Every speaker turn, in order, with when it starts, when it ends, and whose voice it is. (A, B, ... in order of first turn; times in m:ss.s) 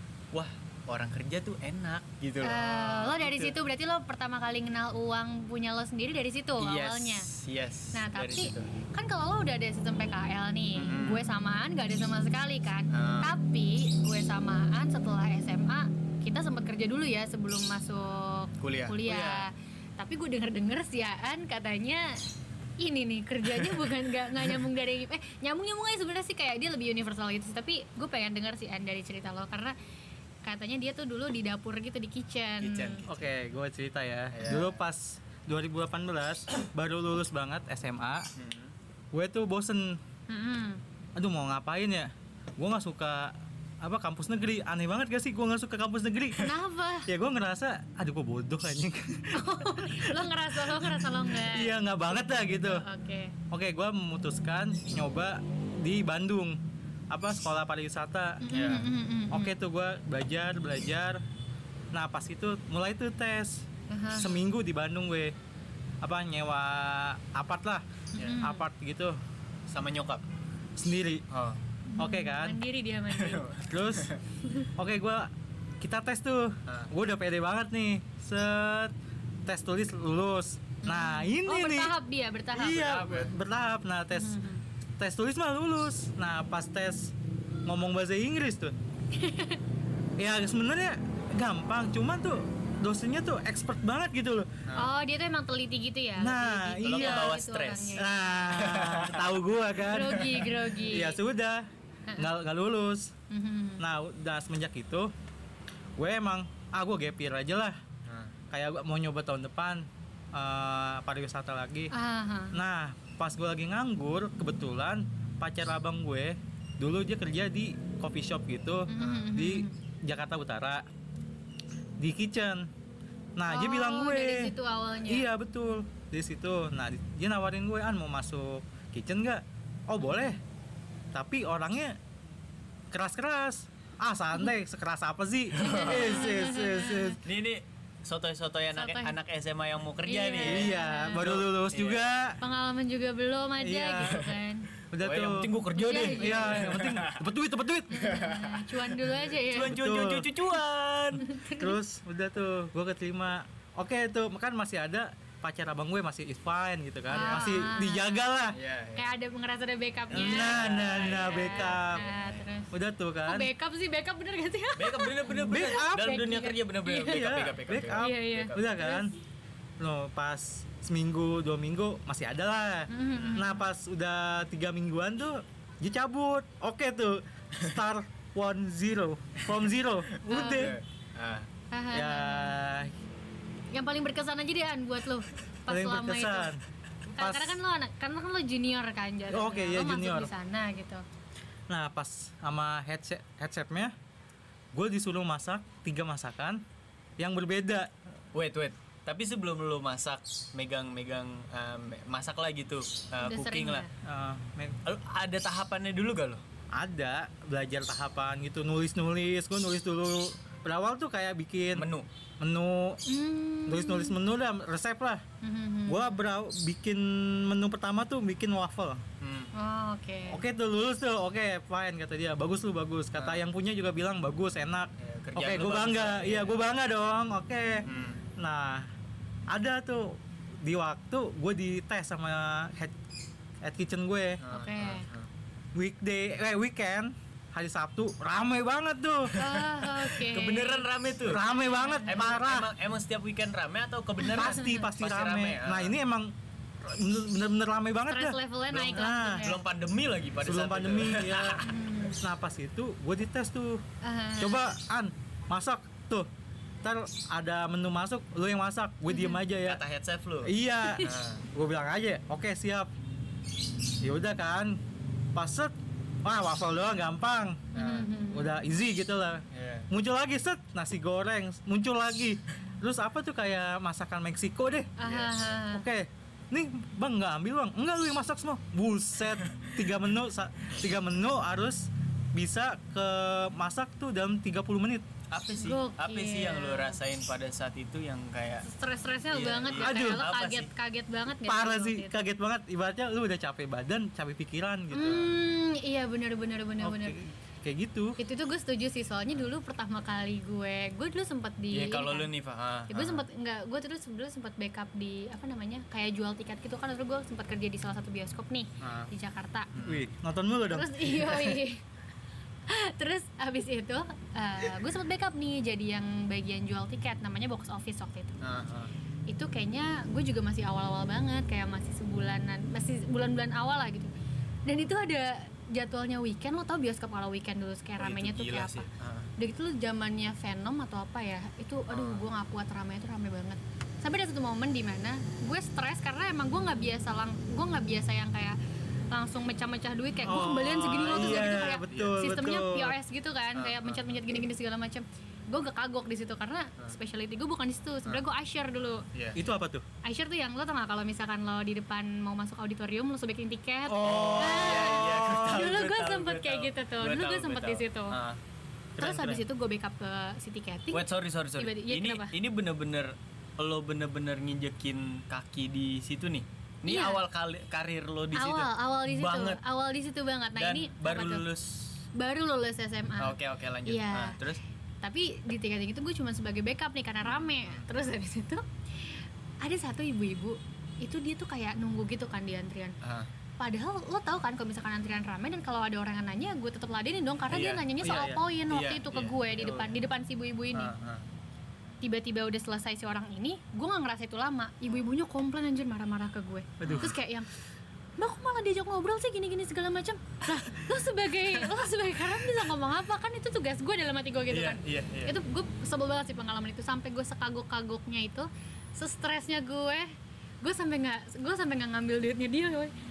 0:00.3-0:03.5 A
0:02.4-0:07.3 B
0:06.6-0:08.7 A
0:07.9-0:29.7 B
0:10.8-0:11.3 A
0:12.9-0:13.3 A
0:18.6-0:19.5 A
0:30.4-0:33.0 B
0:32.6-0:33.2 A
0:33.1-0:38.3 C
0:34.3-0:34.8 A
0:38.4-0:38.7 A
0:39.1-0:40.0 C
0:40.3-0:40.8 B
0:41.2-0:46.5 C
0:46.4-0:47.1 B
0:47.1-0:52.8 C
0:49.3-0:53.3 B
0:53.5-0:56.6 C
0:57.1-0:58.4 C
0:58.4-0:59.5 B
0:58.5-0:58.9 A
0:59.3-1:01.2 C
1:01.9-1:05.3 C
1:03.9-1:04.4 B
1:06.0-1:07.8 C
1:08.2-1:08.6 B
1:08.4-1:09.2 C
1:09.7-1:10.2 A
1:10.8-1:11.2 C
1:11.3-1:11.6 A
1:11.9-1:13.6 B
1:12.0-1:12.6 C
1:13.1-1:14.2 A
1:13.6-1:14.1 C
1:14.8-1:18.9 C
1:16.7-1:16.9 A
1:19.4-1:21.9 C
1:20.8-1:23.1 B
1:22.5-1:24.4 C
1:22.8-1:23.3 A
1:24.1-1:24.6 B
1:25.0-1:27.1 C
1:27.6-1:28.7 C
1:29.1-1:29.6 B
1:30.2-1:34.5 C
1:34.7-1:38.4 B
1:36.2-1:37.4 C
1:36.8-1:39.4 A
1:38.0-1:43.1 C
1:39.8-1:41.2 B
1:43.3-1:43.8 B
1:43.8-1:45.1 C
1:46.0-1:47.8 C
1:48.1-1:48.3 A
1:48.5-1:51.9 C
1:51.9-1:52.6 B
1:52.5-2:00.8 C
1:58.9-1:59.7 B
2:02.0-2:02.7 C
2:03.4-2:04.5 C
2:03.5-2:05.3 B
2:05.1-2:10.4 C
2:11.1-2:12.0 C
2:12.9-2:17.2 C
2:15.6-2:16.3 A
2:15.6-2:17.2 B
2:17.2-2:22.0 A
2:18.7-2:19.2 B
2:20.0-2:21.2 B
2:20.4-2:22.4 C
2:22.4-2:24.7 B
2:23.6-2:24.2 C
2:24.9-2:25.5 C
2:25.0-2:27.2 A
2:25.7-2:26.8 B
2:26.0-2:28.2 C
2:27.9-2:29.8 B
2:28.0-2:31.2 A
2:29.6-2:30.3 C
2:31.2-2:31.8 B
2:31.5-2:38.6 C
2:37.1-2:38.2 B
2:37.1-2:37.5 A
2:38.5-2:39.1 A
2:39.0-2:42.7 B
2:40.1-2:42.4 A
2:40.1-2:42.1 C
2:42.7-2:43.5 C
2:43.2-2:47.4 B
2:44.8-2:48.8 A
2:45.4-2:46.1 C
2:47.0-2:49.1 C
2:47.9-2:49.1 B
2:49.8-3:00.8 C
2:52.9-2:53.6 B
2:53.1-2:53.4 A
3:00.2-3:01.5 A
3:00.3-3:00.7 B
3:01.7-3:02.5 B
3:01.9-3:02.9 C
3:03.7-3:06.5 B
3:05.7-3:06.6 C
3:07.1-3:11.0 B
3:07.1-3:07.6 C
3:09.3-3:10.3 C
3:11.7-3:13.9 C
3:14.7-3:16.6 C
3:17.2-3:17.9 C
3:18.3-3:23.8 A
3:23.2-3:23.9 B
3:24.0-3:24.8 C
3:24.8-3:26.4 A
3:26.7-3:31.9 C
3:31.8-3:32.1 A
3:32.4-3:33.0 C
3:33.0-3:34.1 B
3:33.7-3:35.2 C
3:35.4-3:36.2 B
3:35.9-3:39.0 C
3:39.2-3:39.5 A
3:39.5-3:40.4 B
3:40.3-3:48.9 C
3:43.2-3:43.4 A
3:45.0-3:46.6 A
3:47.8-3:48.2 A
3:49.5-3:52.9 C
3:53.6-3:54.4 C
3:54.4-3:55.3 A
3:54.5-3:55.1 B
3:55.7-3:59.4 C
3:59.3-4:01.4 A
3:59.4-4:02.3 B
4:01.2-4:02.7 C
4:02.0-4:06.0 A
4:04.2-4:04.8 B
4:04.3-4:09.5 C
4:08.1-4:09.6 B
4:08.8-4:11.6 A
4:10.4-4:11.6 C
4:11.6-4:12.2 B
4:12.2-4:13.8 C
4:14.0-4:14.7 B
4:14.4-4:16.3 C
4:16.8-4:19.8 C
4:19.1-4:19.4 B
4:19.6-4:21.4 A
4:20.4-4:22.9 C
4:20.8-4:21.1 B
4:24.0-4:24.8 C
4:25.3-4:25.7 C
4:26.2-4:27.7 C
4:27.7-4:28.5 B
4:27.7-4:28.1 A
4:28.3-4:34.9 C
4:29.5-4:29.9 A
4:35.0-4:35.8 B
4:35.0-4:35.5 A
4:35.7-4:45.0 C
4:39.4-4:39.7 A
4:45.3-4:48.7 A
4:45.6-4:47.0 B
4:48.6-4:52.1 B
4:49.3-4:50.7 A
4:49.8-4:50.2 C
4:51.5-4:55.3 C
4:54.9-4:57.2 B
4:56.8-4:58.2 C
4:58.2-5:02.3 B
5:01.7-5:03.2 A
5:02.9-5:09.7 B
5:08.8-5:09.1 A
5:09.7-5:10.0 A
5:09.8-5:11.6 C
5:10.7-5:11.8 B
5:12.7-5:18.3 B
5:18.4-5:18.9 A
5:19.3-5:24.1 B
5:24.6-5:38.6 B
5:28.0-5:29.3 A
5:31.9-5:32.2 A
5:39.1-5:49.0 B
5:40.2-5:43.0 C
5:40.9-5:42.3 A
5:43.5-5:44.2 A
5:49.1-5:49.4 A
5:49.3-5:49.8 C
5:50.0-5:58.2 B
5:53.9-5:55.7 C
5:54.0-5:58.4 A
5:59.0-5:59.4 C
5:59.0-6:01.0 B
6:00.9-6:09.6 A
6:01.6-6:02.3 B
6:06.8-6:07.2 B
6:08.3-6:11.4 B
6:10.5-6:12.0 A
6:12.1-6:14.4 B
6:13.2-6:14.6 A
6:15.0-6:23.0 B
6:17.2-6:17.9 A
6:23.0-6:23.3 A
6:23.6-6:30.9 B
6:27.5-6:30.0 A
6:28.0-6:28.4 C
6:30.7-6:31.2 A
6:32.0-6:37.5 B
6:36.8-6:37.2 C
6:36.8-6:37.1 A
6:38.2-6:50.1 B
6:44.5-6:45.4 A
6:50.6-6:52.9 B